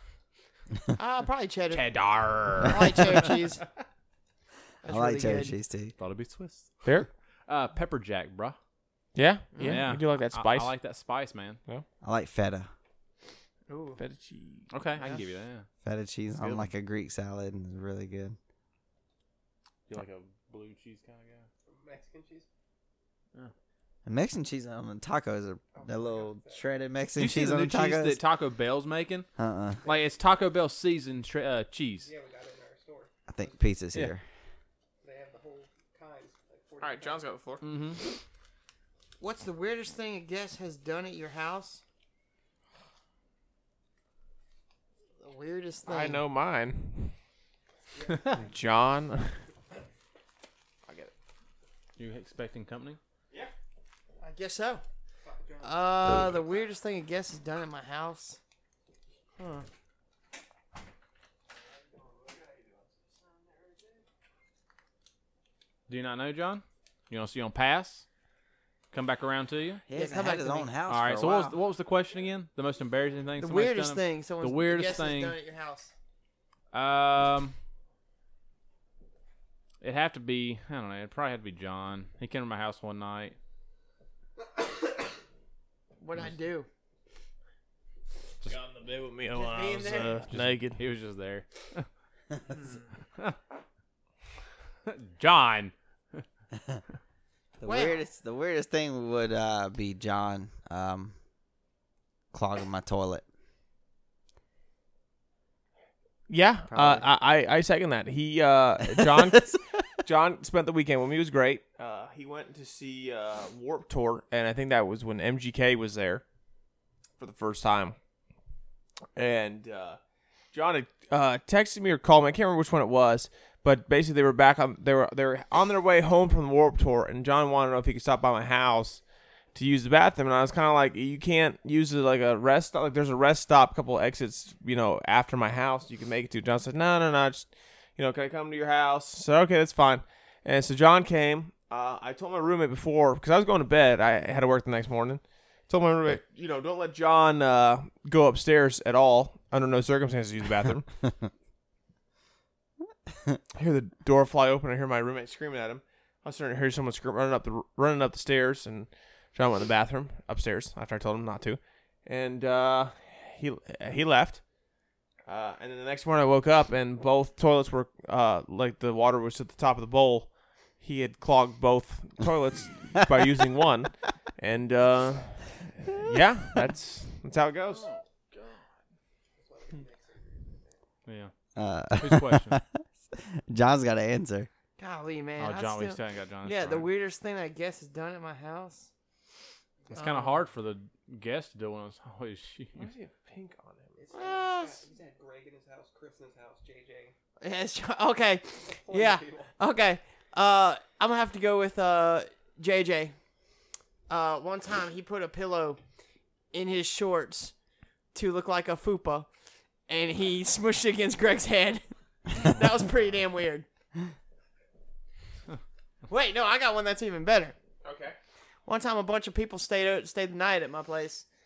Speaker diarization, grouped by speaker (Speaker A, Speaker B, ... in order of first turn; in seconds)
Speaker A: 1.0-1.9, 2.6-3.6, 4.8-5.5, 9.6-9.8, 13.7-14.0, 39.2-41.8, 45.2-46.2, 54.2-54.8, 55.6-58.4, 59.4-59.7, 69.9-70.7, 73.4-75.9, 86.0-86.7, 89.3-90.2, 97.7-98.0, 184.8-188.9, 190.0-190.3, 194.1-194.8, 197.4-203.2, 204.1-205.8, 206.5-207.5, 208.1-209.3, 209.9-213.7, 216.1-217.6, 218.7-221.2
Speaker B: 1.7-3.4, 6.0-6.9, 7.5-8.6, 9.6-11.6, 14.7-15.7, 16.4-16.7, 19.9-21.5, 27.2-29.3, 29.9-32.1, 37.6-38.0, 52.0-53.0, 65.9-68.1, 68.9-69.8, 70.9-75.4, 76.7-77.5, 79.8-83.4, 90.3-91.9, 94.9-96.2, 177.7-178.7, 181.1-181.3, 181.9-182.6, 185.4-186.9, 189.9-192.9
Speaker C: 4.9-5.9, 12.0-12.7, 15.8-18.4, 24.1-28.2, 29.4-29.8, 33.3-34.2, 69.9-71.5, 97.6-101.2, 102.3-103.2, 106.7-107.1, 108.8-109.6, 181.6-184.5
Speaker D: 9.2-10.7, 14.0-14.7, 36.8-37.6, 45.9-47.1, 48.3-49.4, 88.5-90.8, 106.3-109.5, 110.0-116.2, 117.2-118.0, 119.2-120.0, 120.5-129.0, 129.5-150.9, 153.6-164.4, 165.3-177.9, 192.8-193.9, 217.8-218.2
Speaker E: 21.6-22.5, 25.8-26.7, 32.0-33.6, 35.0-37.2, 48.0-48.3, 55.2-56.5, 61.9-64.0, 179.4-180.8, 194.0-197.1, 198.8-199.5